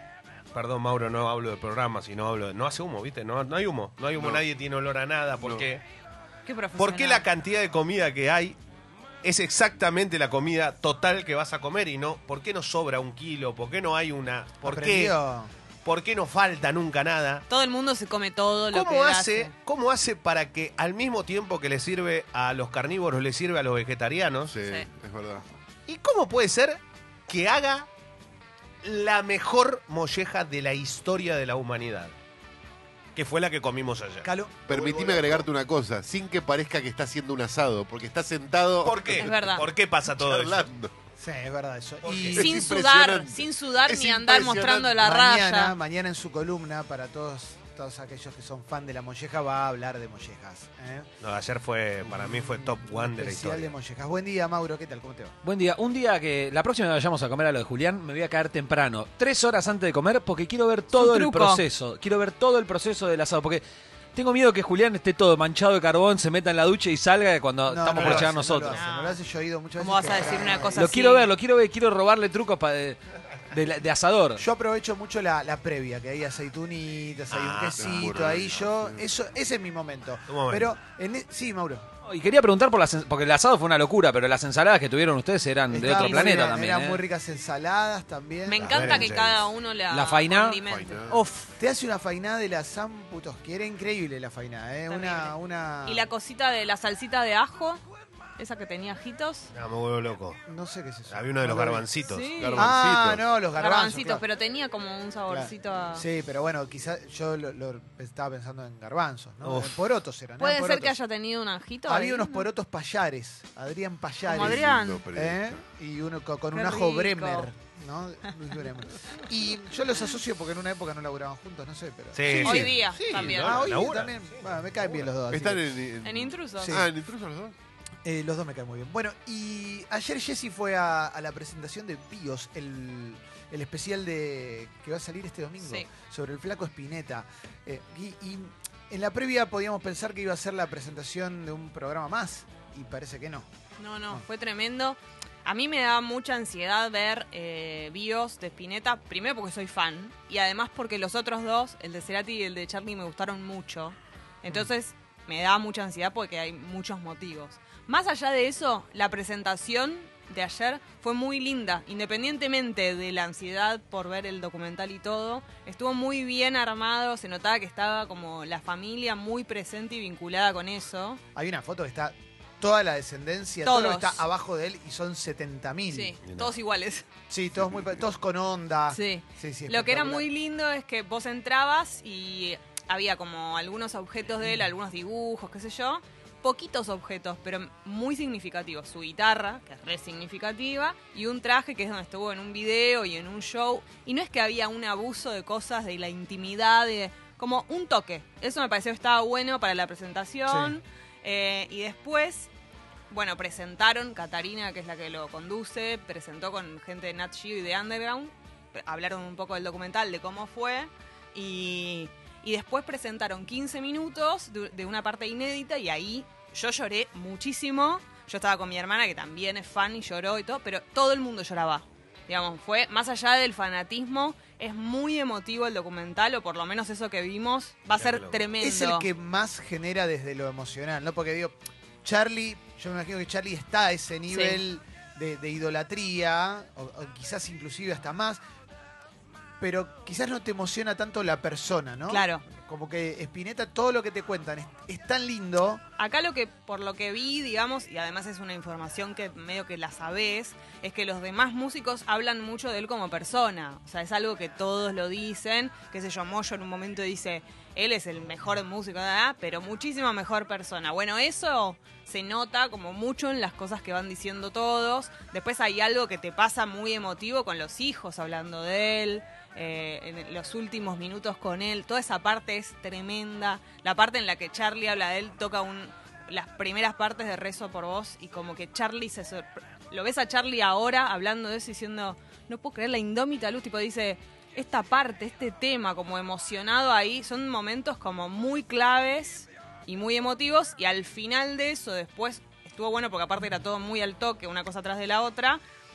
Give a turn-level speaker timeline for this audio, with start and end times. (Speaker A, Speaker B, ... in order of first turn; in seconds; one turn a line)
Speaker A: 0.5-5.8
Speaker B: 4.2-4.4
Speaker B: 5.4-5.7
Speaker C: 6.5-7.3
Speaker A: 6.8-8.6
Speaker A: 9.2-15.2
Speaker D: 14.6-15.5
Speaker A: 15.8-17.4
Speaker C: 17.5-19.5
Speaker A: 18.7-24.5
Speaker B: 24.5-25.4
Speaker A: 25.9-27.9
Speaker A: 28.8-32.1
Speaker A: 33.2-34.3
Speaker D: 34.2-35.3
Speaker B: 34.7-40.9
Speaker A: 35.0-35.4
Speaker A: 38.8-40.7
Speaker C: 39.2-39.6
Speaker D: 41.2-42.5
Speaker A: 42.0-42.4
Speaker B: 42.3-45.0
Speaker C: 42.4-45.8
Speaker D: 45.0-51.1
Speaker A: 51.2-53.7
Speaker D: 52.0-55.4
Speaker E: 55.4-63.6
Speaker C: 60.9-61.6
Speaker E: 64.2-68.8
Speaker D: 67.7-70.8
Speaker C: 68.0-69.2
Speaker C: 69.8-71.3
Speaker E: 70.8-73.0
Speaker E: 73.5-74.4
Speaker D: 74.4-81.9
Speaker A: 77.3-78.1
Speaker B: 77.8-79.1
Speaker A: 80.3-80.7
Speaker E: 82.0-87.0
Speaker D: 85.7-89.1
Speaker C: 85.8-86.6
Speaker C: 88.5-91.5
Speaker A: 88.6-89.5
Speaker E: 89.9-90.6
Speaker B: 90.7-91.2
Speaker D: 91.6-96.1
Speaker C: 94.9-97.8
Speaker C: 98.4-99.5
Speaker A: 99.5-100.4
Speaker D: 100.5-101.9
Speaker A: 101.1-102.3
Speaker C: 102.1-102.7
Speaker B: 102.4-103.3
Speaker D: 102.5-104.2
Speaker C: 103.6-106.0
Speaker D: 105.3-111.0
Speaker A: 109.4-109.8
Speaker C: 110.4-112.5
Speaker D: 111.9-125.7
Speaker C: 114.3-115.0
Speaker B: 114.3-115.6
Speaker C: 116.5-117.5
Speaker A: 122.1-124.4
Speaker C: 122.3-123.6
Speaker B: 122.9-123.5
Speaker B: 125.3-127.5
Speaker C: 126.0-126.8
Speaker D: 126.6-126.9
Speaker D: 128.0-143.5
Speaker C: 135.6-135.9
Speaker C: 143.8-171.2
Speaker D: 171.3-176.2
Speaker C: 173.6-174.2
Speaker C: 175.9-177.0
Speaker A: 176.3-176.5
Speaker D: 177.3-180.3
Speaker C: 178.9-202.5
Speaker D: 200.5-200.8
Speaker C: 203.1-229.1
Speaker A: 228.0-228.4
Speaker D: 228.6-238.4
Speaker C: 234.3-234.6
Speaker D: 239.6-245.8
Speaker C: 242.1-242.4
Speaker C: 246.0-295.6